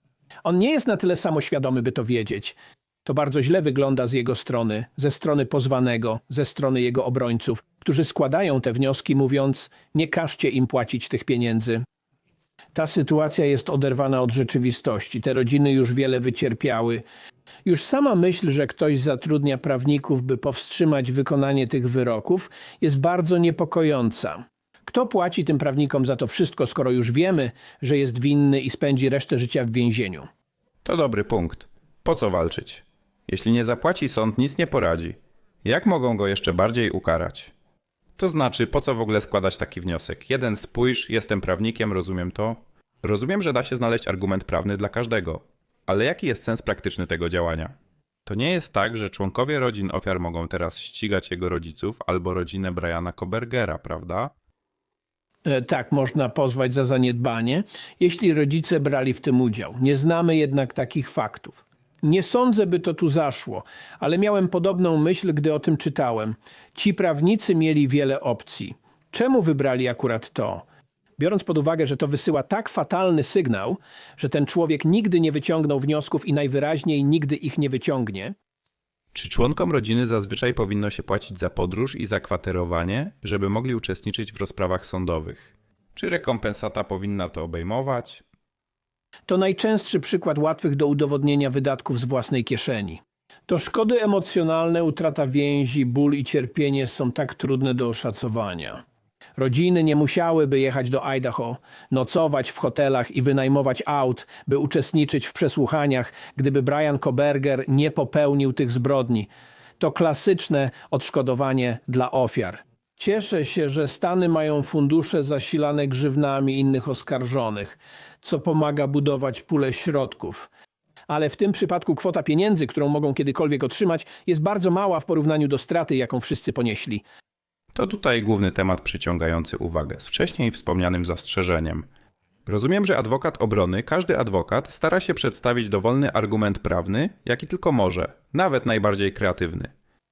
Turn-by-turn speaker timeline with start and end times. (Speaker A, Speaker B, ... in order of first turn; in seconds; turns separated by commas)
Speaker A: 0.5-11.8, Speaker A: 12.7-17.1, Speaker A: 17.6-30.3, Speaker B: 30.8-37.5, Speaker B: 38.2-47.7, Speaker B: 48.2-54.3, Speaker A: 55.5-70.7, Speaker A: 71.2-78.3, Speaker B: 79.1-88.2, Speaker A: 89.3-98.8, Speaker A: 99.4-120.5, Speaker A: 121.1-127.0, Speaker B: 127.7-131.9, Speaker B: 132.5-139.7